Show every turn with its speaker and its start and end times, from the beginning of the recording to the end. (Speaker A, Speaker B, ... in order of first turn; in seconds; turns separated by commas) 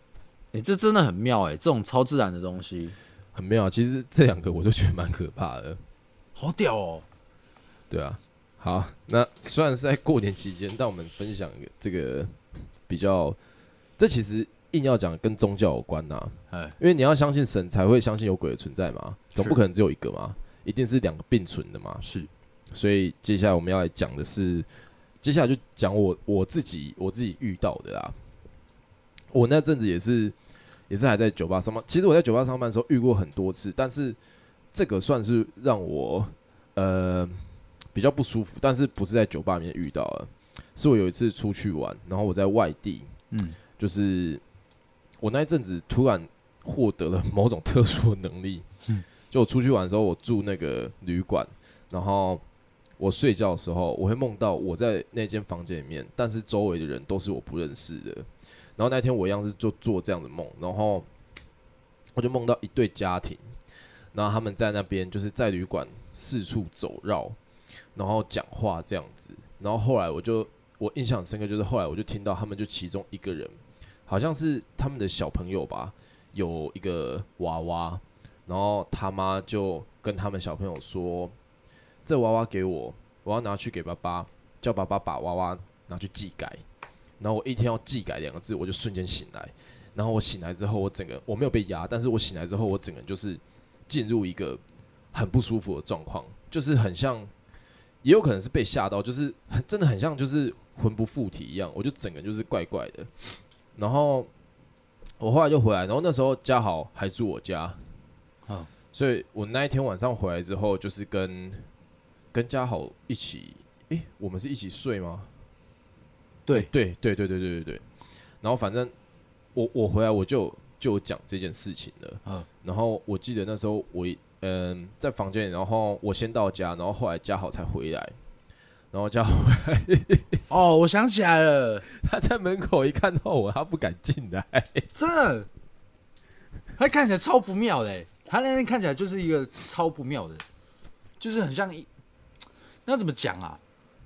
Speaker A: 0.5-3.0, Speaker B: 3.3-5.8, Speaker C: 6.3-7.0, Speaker B: 7.9-13.4, Speaker B: 14.0-22.1, Speaker C: 16.5-16.8, Speaker C: 22.0-22.3, Speaker B: 22.7-24.7, Speaker B: 25.2-28.1, Speaker B: 29.3-30.4, Speaker B: 30.9-34.2, Speaker B: 34.7-43.1, Speaker C: 43.3-43.6, Speaker B: 43.8-44.4, Speaker B: 45.2-48.6, Speaker B: 49.3-52.4, Speaker B: 53.0-61.1, Speaker B: 62.1-63.5, Speaker B: 64.1-67.4, Speaker B: 67.9-81.3, Speaker B: 82.0-86.6, Speaker B: 87.2-94.6, Speaker B: 95.1-97.3, Speaker B: 98.0-104.3, Speaker B: 105.2-107.8, Speaker B: 108.9-111.7, Speaker B: 112.3-115.3, Speaker B: 116.5-117.8, Speaker B: 118.4-118.9, Speaker B: 119.5-128.2, Speaker B: 128.9-130.4, Speaker C: 130.5-131.8, Speaker B: 131.9-134.9, Speaker C: 134.9-135.5, Speaker C: 136.8-140.4, Speaker C: 141.2-141.9, Speaker C: 142.8-143.6